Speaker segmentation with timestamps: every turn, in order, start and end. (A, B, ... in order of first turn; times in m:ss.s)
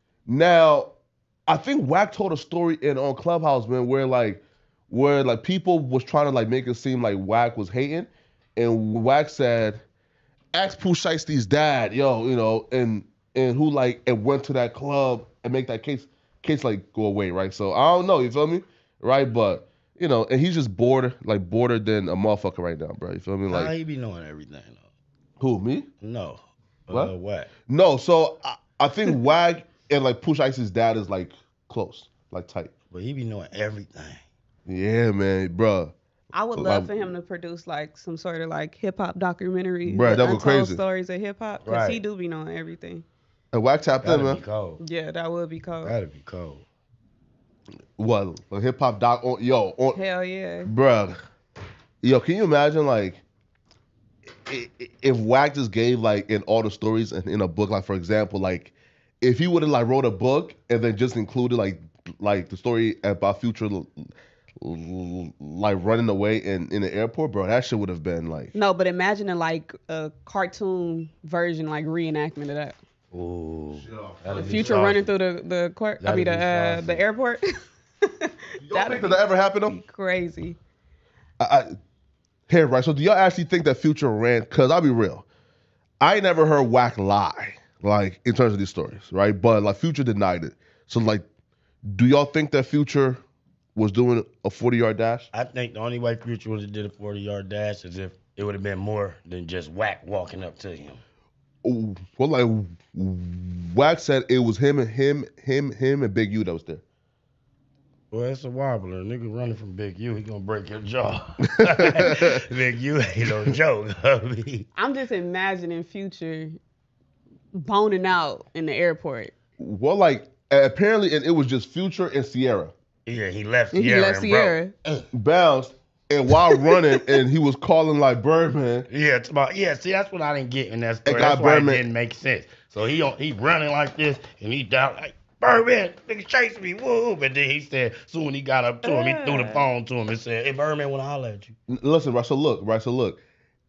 0:00.3-0:00.9 A
0:01.5-0:09.8 A
0:10.5-0:23.7 A
0:23.5-0:24.8 B
0:25.4-0:25.9 A
0:26.0-0:27.5 B
0:27.7-0:32.7 A
0:32.9-0:34.2 B
0:34.7-0:35.9 A
0:36.3-0:43.1 C
0:36.6-0:37.0 A
0:39.8-0:40.8 A
0:41.6-0:42.0 B
0:43.5-0:44.4 A
0:44.0-0:44.8 B
0:44.8-0:46.0 C
0:45.8-0:46.6 B
0:48.0-0:50.0 A
0:49.9-0:50.7 C
0:50.6-0:51.2 A
0:52.0-0:53.2 A
0:54.4-1:08.5 A
1:08.5-1:12.8 C
1:13.1-1:15.0 B
1:13.8-1:14.8 A
1:14.3-1:17.5 C
1:16.0-1:17.0 B
1:18.0-1:20.6 C
1:18.6-1:19.8 A
1:21.4-1:21.7 A
1:22.5-1:25.2 A
1:26.0-1:31.2 A
1:31.9-1:33.2 A
1:33.8-1:35.3 A
1:35.3-1:41.0 B
1:41.6-1:46.8 A
1:48.1-1:54.7 B
1:51.5-1:52.3 A
1:54.8-1:56.6 C
1:57.5-1:59.3 C
1:59.6-2:02.7 A
2:03.1-2:05.0 B
2:03.7-2:04.7 C
2:05.1-2:08.9 A
2:06.5-2:07.0 C
2:08.9-2:21.5 B
2:11.0-2:11.8 A
2:18.8-2:19.7 C
2:21.7-2:23.2 A